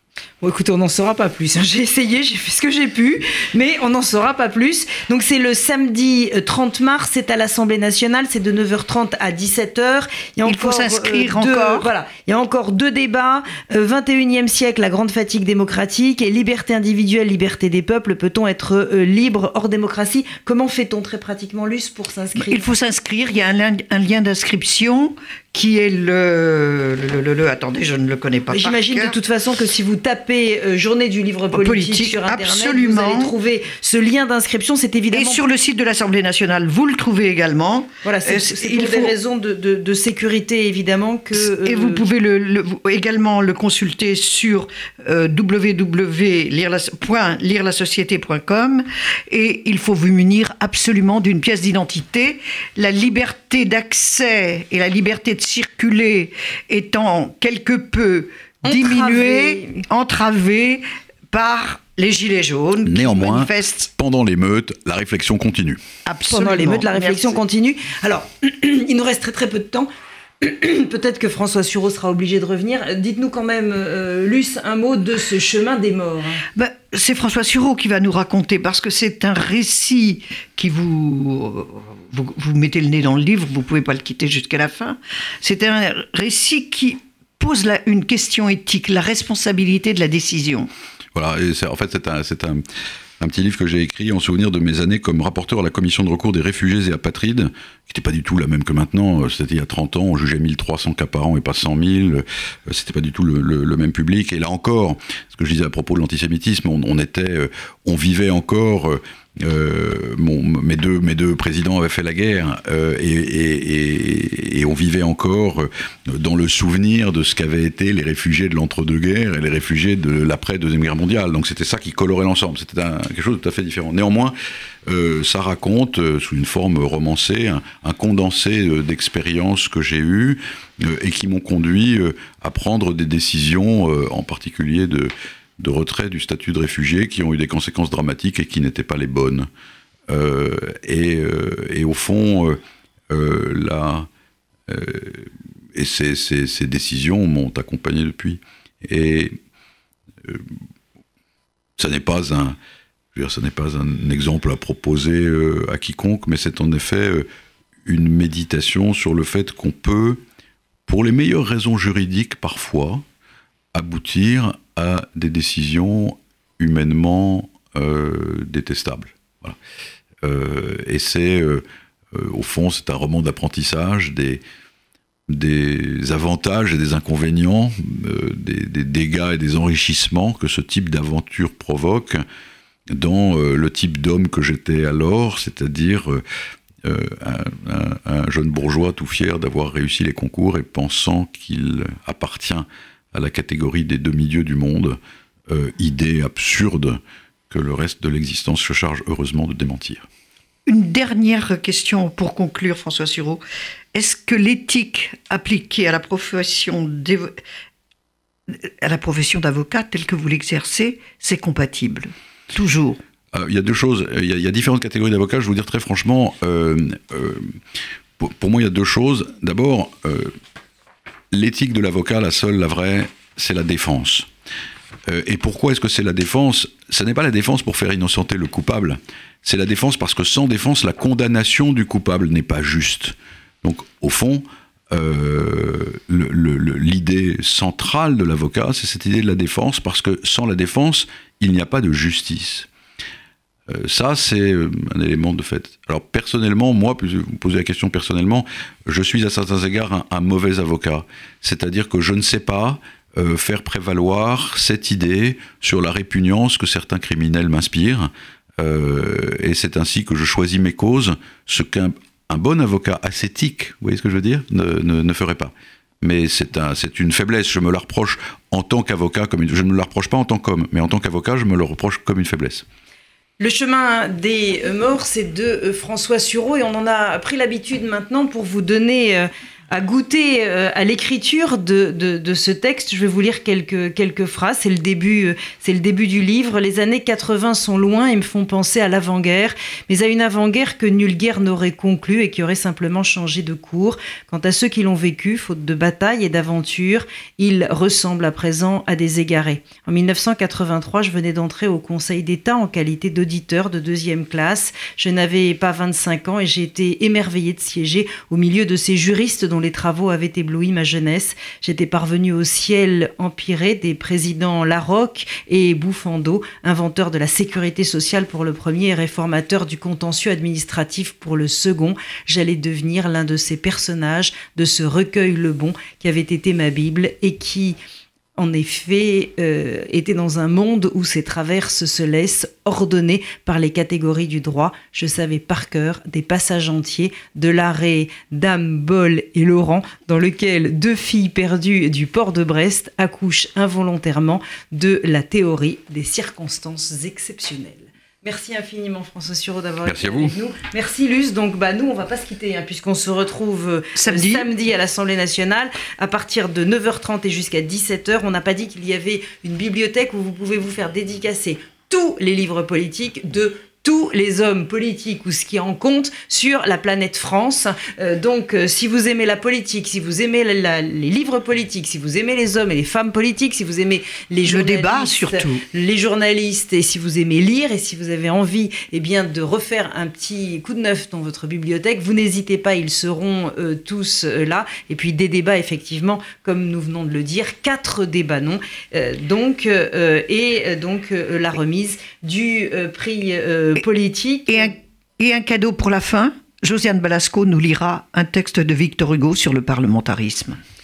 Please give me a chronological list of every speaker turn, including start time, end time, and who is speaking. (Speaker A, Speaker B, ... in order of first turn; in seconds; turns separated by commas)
Speaker A: 0.4-22.7, Speaker B: 10.4-11.9, Speaker B: 22.4-29.1, Speaker A: 28.5-35.4, Speaker B: 31.5-33.3, Speaker B: 35.1-39.1, Speaker A: 38.0-42.0, Speaker B: 41.4-63.9, Speaker A: 58.6-59.8, Speaker C: 62.9-65.8, Speaker B: 66.0-67.4, Speaker A: 66.3-69.9, Speaker A: 70.4-76.4, Speaker B: 76.5-90.7, Speaker C: 91.1-92.6, Speaker C: 93.2-124.3, Speaker C: 124.9-139.5, Speaker C: 140.1-142.6, Speaker C: 143.1-144.1, Speaker C: 144.7-149.3, Speaker C: 150.2-150.5, Speaker C: 151.8-152.6, Speaker C: 153.1-157.3, Speaker C: 157.8-160.2, Speaker C: 160.9-163.0, Speaker C: 163.7-169.6, Speaker C: 170.2-174.4, Speaker C: 175.3-182.2, Speaker C: 182.9-186.2, Speaker C: 186.8-195.0, Speaker C: 195.5-200.1, Speaker B: 200.7-203.4, Speaker B: 203.9-207.3, Speaker B: 208.5-213.0, Speaker C: 213.3-217.4, Speaker C: 218.2-220.3, Speaker C: 221.3-224.3, Speaker C: 225.1-242.7, Speaker C: 243.7-272.6, Speaker A: 273.4-327.8, Speaker A: 328.4-394.7, Speaker C: 349.9-350.3, Speaker B: 353.9-354.5, Speaker B: 374.4-375.6, Speaker B: 394.5-400.6